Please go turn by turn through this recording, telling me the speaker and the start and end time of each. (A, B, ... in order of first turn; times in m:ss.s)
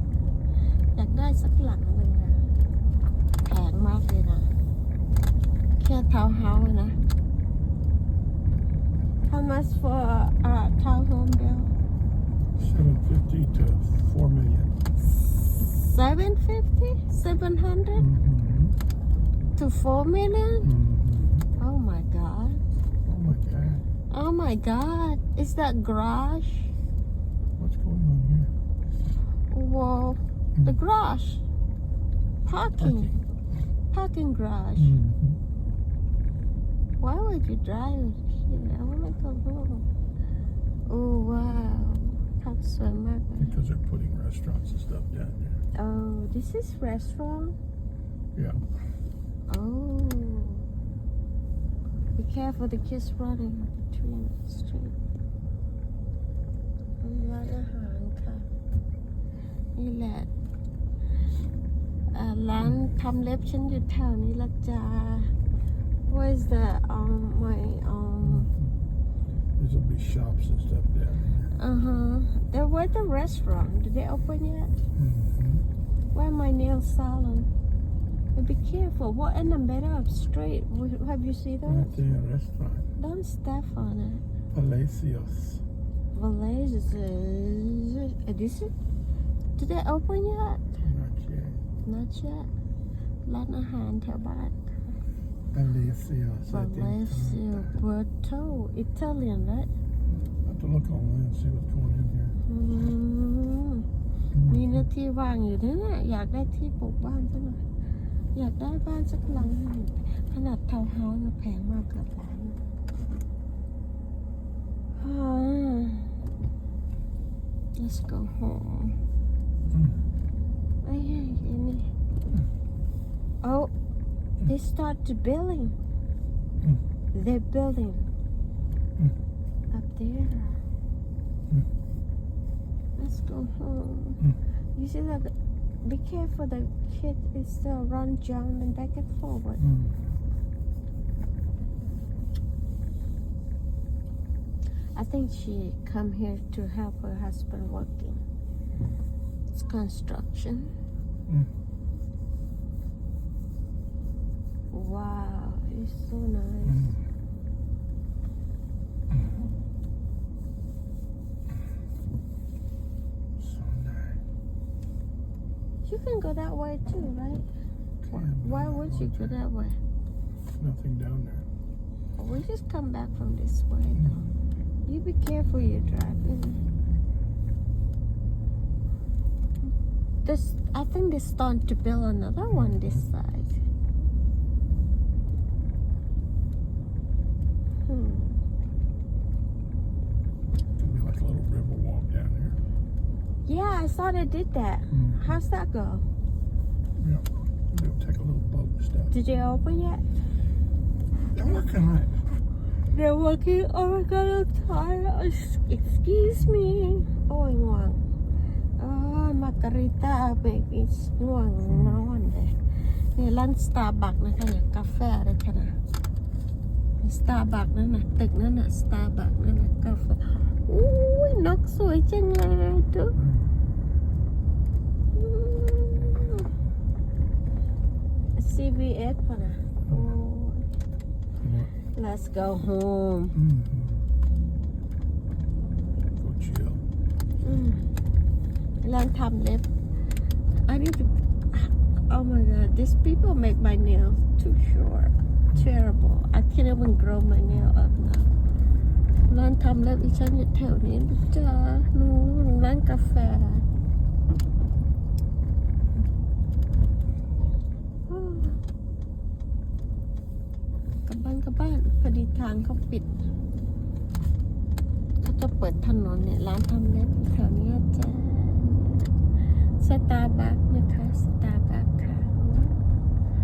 0:00.9-0:02.5 A
0:03.4-0:04.5 A
0:05.8-0:07.0 A
0:09.2-0:11.7 A
0:12.6-0:14.8 B
0:15.2-0:18.1 A
0:17.9-0:18.8 B
0:19.6-0:20.7 A
0:20.6-0:21.5 B
0:21.6-0:22.6 A
0:23.0-0:23.8 B
0:24.1-0:26.7 A
0:27.6-0:28.5 B
0:29.5-0:31.4 A
0:32.4-0:33.1 A
0:32.8-0:33.2 B
0:33.9-0:35.0 A
0:34.8-0:35.4 B
0:37.0-0:39.8 A
0:40.9-0:43.5 A
0:43.4-0:45.6 B
0:45.7-0:47.6 A
0:48.3-0:48.6 B
0:49.5-0:50.6 A
0:52.2-0:55.0 A
0:57.0-0:58.5 A
0:59.8-1:00.3 A
1:02.1-1:05.3 A
1:06.1-1:08.5 A
1:08.2-1:08.7 B
1:09.6-1:11.5 B
1:11.5-1:14.8 A
1:14.9-1:15.6 B
1:16.1-1:17.5 A
1:18.3-1:22.0 A
1:21.6-1:22.9 B
1:23.0-1:24.2 A
1:24.5-1:25.6 B
1:26.1-1:28.7 A
1:29.6-1:30.7 A
1:30.8-1:31.6 B
1:31.8-1:32.5 A
1:33.2-1:34.8 A
1:35.5-1:37.7 B
1:36.5-1:39.7 A
1:40.4-1:42.4 B
1:42.4-1:43.8 A
1:44.3-1:44.8 B
1:44.5-1:47.6 A
1:48.3-1:52.6 A
1:55.0-1:56.1 A
1:57.8-1:59.0 A
2:00.8-2:01.9 A
2:03.4-2:03.7 A
2:04.4-2:05.7 A
2:07.1-2:08.1 A
2:09.7-2:10.6 A
2:13.0-2:14.2 A
2:14.8-2:19.6 A
2:19.6-2:20.0 B
2:24.9-2:28.2 A
2:29.5-2:30.7 A
2:34.7-2:37.0 A
2:36.6-2:37.0 B
2:43.4-2:44.2 B
2:45.8-2:47.4 A
2:48.0-2:49.4 B
2:48.1-2:49.8 A
2:50.4-2:51.5 B
2:52.2-2:54.2 A
2:54.8-2:56.6 A
3:00.2-3:03.6 A
3:07.8-3:08.4 A
3:10.8-3:12.6 B
3:13.4-3:16.1 A
3:14.9-3:15.4 B
3:17.0-3:19.1 B
3:19.1-3:20.0 A
3:21.3-3:22.2 B
3:22.9-3:28.0 A
3:28.8-3:35.8 A
3:31.6-3:32.0 B
3:37.0-3:43.2 A
3:43.2-3:43.5 B
3:45.1-3:46.5 A
3:48.4-3:50.6 A
3:51.4-3:51.7 B
3:51.9-3:53.4 A
3:53.3-3:54.0 B
3:56.0-3:56.8 B
3:57.4-3:57.9 A
3:58.8-3:59.7 A
4:00.5-4:08.3 A
4:09.3-4:13.6 A
4:18.1-4:18.6 A
4:21.0-4:23.2 A
4:25.2-4:32.7 A